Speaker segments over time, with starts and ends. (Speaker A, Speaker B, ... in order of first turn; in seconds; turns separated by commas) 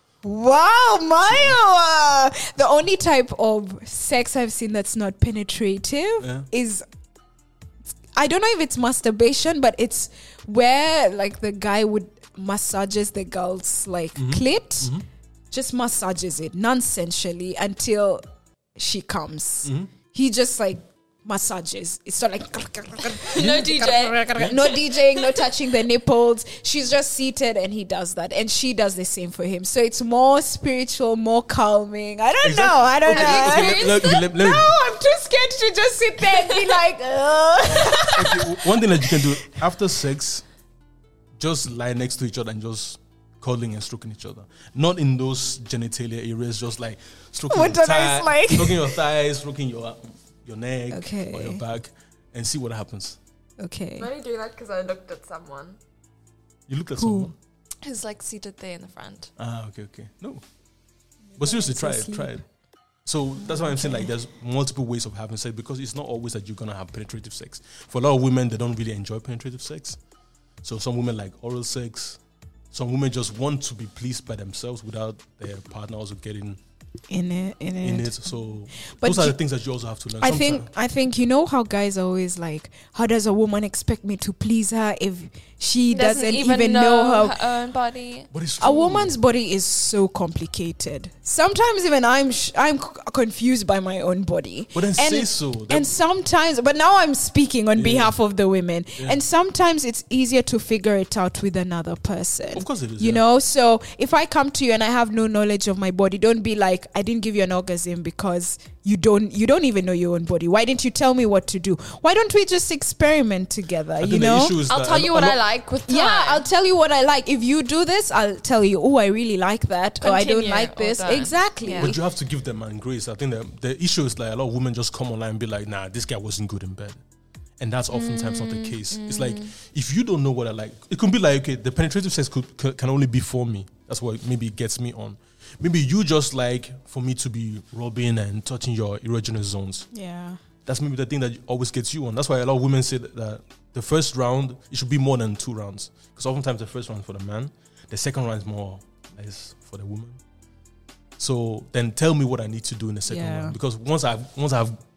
Speaker A: 0.2-6.8, Speaker B: 1.3-1.6, Speaker B: 6.2-6.5, Speaker A: 8.1-14.9, Speaker B: 14.2-15.0, Speaker A: 15.5-18.2, Speaker A: 18.8-39.2, Speaker B: 19.6-19.9, Speaker C: 23.2-25.4, Speaker B: 32.4-34.7, Speaker C: 33.1-34.2, Speaker B: 37.7-40.4, Speaker B: 41.4-53.2, Speaker A: 47.5-49.0, Speaker A: 50.9-51.6, Speaker A: 53.6-54.1, Speaker C: 54.0-55.8, Speaker B: 56.7-57.3, Speaker A: 57.0-57.3, Speaker C: 57.8-59.3, Speaker B: 59.4-60.4, Speaker A: 61.3-62.4, Speaker B: 61.4-62.4, Speaker B: 63.0-70.0, Speaker A: 63.4-64.1, Speaker B: 70.6-72.2, Speaker B: 72.7-76.6, Speaker A: 77.1-78.2, Speaker B: 77.8-80.7, Speaker A: 78.9-79.4, Speaker A: 80.2-87.4, Speaker C: 85.9-88.3, Speaker B: 88.3-89.1, Speaker A: 88.6-114.6, Speaker B: 94.7-95.9, Speaker B: 97.7-98.1, Speaker B: 102.5-103.2, Speaker B: 114.0-115.4, Speaker C: 114.7-116.4, Speaker A: 115.9-122.0, Speaker C: 120.0-121.9, Speaker B: 121.7-127.0, Speaker B: 127.6-139.9, Speaker C: 127.9-129.5, Speaker A: 139.9-140.4, Speaker B: 140.7-150.2, Speaker B: 151.2-154.8, Speaker A: 153.1-153.5